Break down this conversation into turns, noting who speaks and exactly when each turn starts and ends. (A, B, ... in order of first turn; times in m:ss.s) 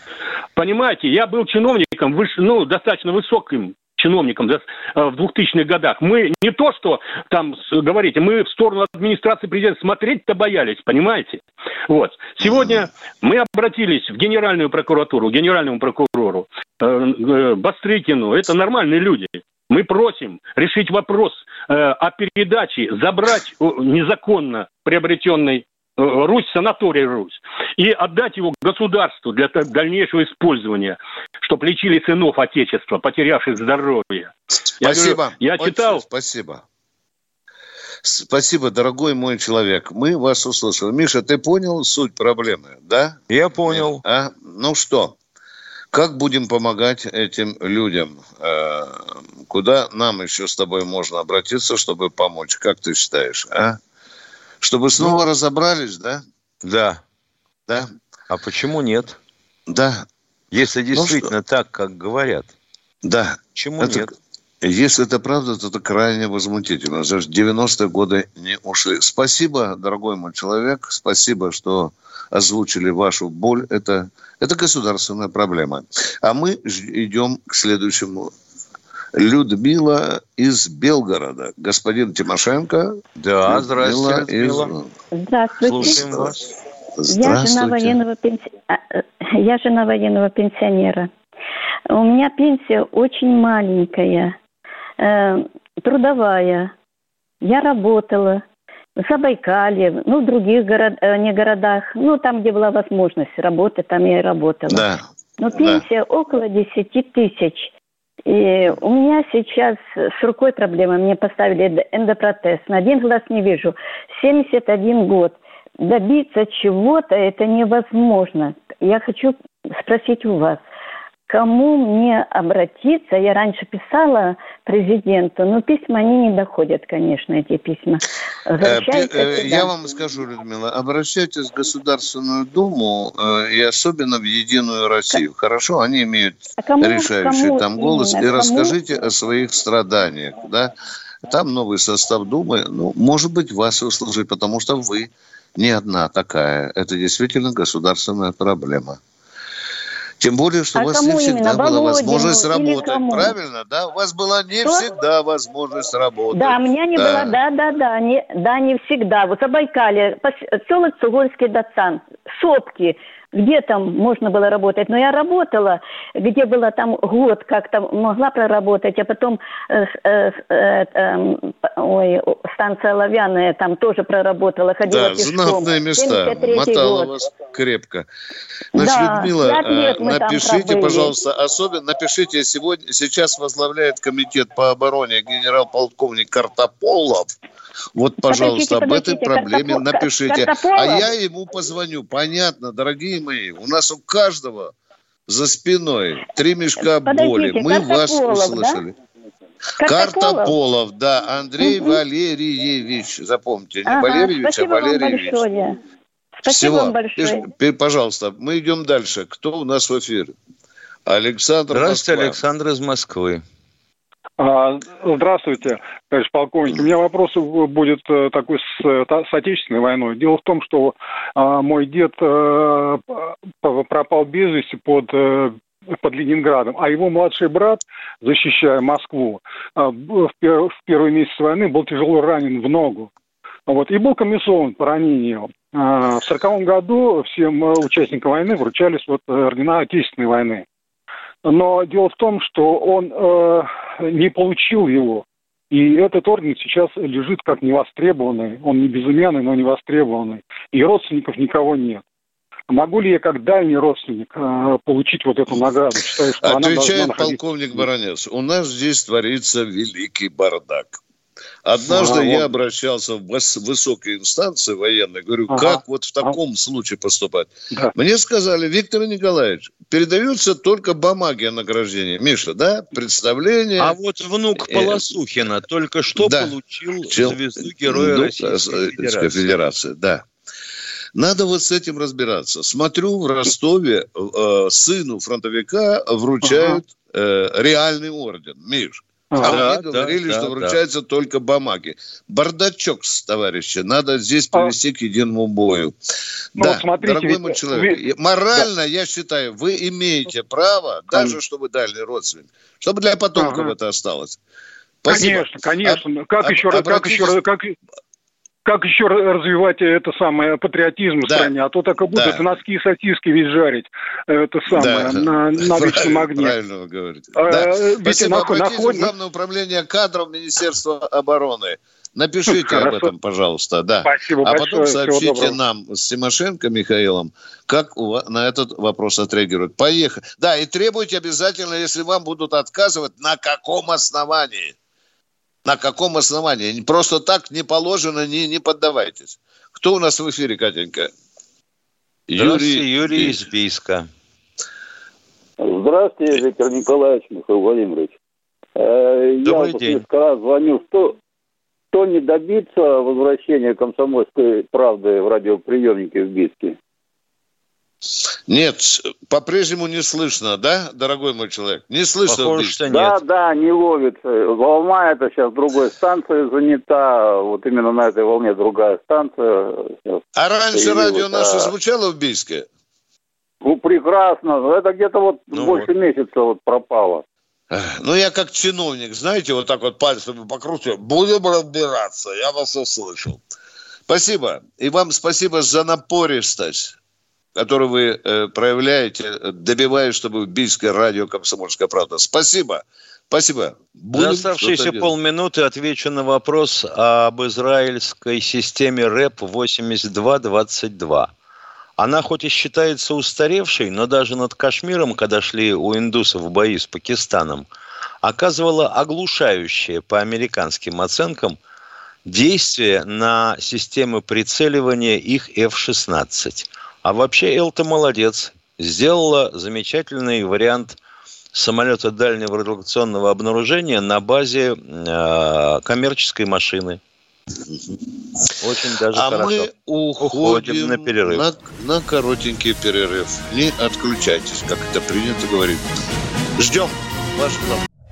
0:00.6-0:36.0 A
0:12.4-0:12.8 B
0:34.8-0:36.6 B
0:38.0-0:45.2 B
0:43.3-0:44.0 C
0:45.9-0:53.8 B
0:54.6-0:56.2 B
0:56.6-0:57.0 C
0:58.3-0:59.2 C
0:59.7-1:00.0 B
1:00.5-1:02.5 C
1:00.9-1:01.3 B
1:03.0-1:04.1 B
1:03.5-1:04.1 C
1:04.6-1:18.3 B
1:19.2-1:24.9 B
1:23.2-1:24.7 C
1:25.1-1:26.0 D
1:25.6-1:26.4 C
1:25.8-1:26.3 B
1:27.0-1:28.0 B
1:27.1-1:31.1 D
1:31.9-1:34.3 D
1:35.0-1:36.7 D
1:37.4-1:38.4 D
1:39.0-1:44.8 D
1:44.7-1:45.0 B
1:45.4-1:47.7 D
1:45.6-1:45.8 B
1:48.3-2:00.6 D
2:01.3-2:09.7 D
2:08.6-2:20.7 B
2:16.6-2:18.8 D
2:21.3-2:29.0 B
2:30.2-2:37.4 B
2:30.7-2:33.3 D
2:36.3-2:57.1 D
2:54.9-2:58.1 B
2:58.7-3:01.1 D
2:58.7-3:07.3 B
3:08.0-3:14.7 B
3:08.3-3:11.1 D
3:15.3-3:18.9 B
3:16.8-3:18.8 D
3:19.8-3:20.6 D
3:19.8-3:25.4 B
3:21.6-3:22.0 D
3:23.8-3:25.8 D
3:26.4-3:27.5 D
3:26.5-3:30.3 B
3:31.0-3:32.4 B
3:31.7-3:33.4 C
3:34.4-3:53.1 E
3:53.7-4:00.6 E
4:01.4-4:12.0 E
4:12.7-4:17.8 E
4:16.4-4:21.0 B
4:21.6-4:34.0 B
4:21.8-4:22.5 E
4:25.5-4:26.4 E
4:33.8-4:39.5 C
4:34.6-4:35.0 B
4:36.2-4:36.5 B
4:37.1-4:40.2 B
4:41.1-4:55.9 B
4:46.4-4:46.8 E
4:49.3-4:49.8 E
4:49.4-4:50.8 C
4:56.6-5:04.4 B
4:56.6-4:58.0 E
5:03.4-5:03.7 E
5:05.0-5:07.4 B
5:05.1-5:07.8 E
5:08.6-5:16.5 E
5:11.2-5:11.5 B
5:12.1-5:12.4 B
5:14.7-5:34.7 B
5:17.4-5:19.1 E
5:22.5-5:23.1 E
5:24.0-5:25.6 E
5:35.6-5:41.1 B
5:42.3-5:43.4 B
5:42.4-5:44.1 C
5:45.6-5:48.2 F
5:48.8-5:51.2 F
5:49.4-5:50.0 C
5:51.9-5:56.8 F
5:58.5-6:02.8 B
6:02.2-6:03.2 C
6:02.9-6:10.2 F
6:10.4-6:12.7 B
6:10.7-6:11.7 F
6:13.6-6:17.2 F
6:15.5-6:15.9 C
6:17.7-6:23.4 B
6:24.1-6:26.9 B
6:27.6-6:35.1 B
6:34.1-6:41.3 C
6:42.0-6:47.7 C
6:48.2-6:51.6 C
6:52.2-7:01.0 C
7:01.5-7:07.0 C
7:07.7-7:08.0 B
7:08.6-7:11.4 C
7:09.1-7:15.8 B
7:16.6-7:17.8 B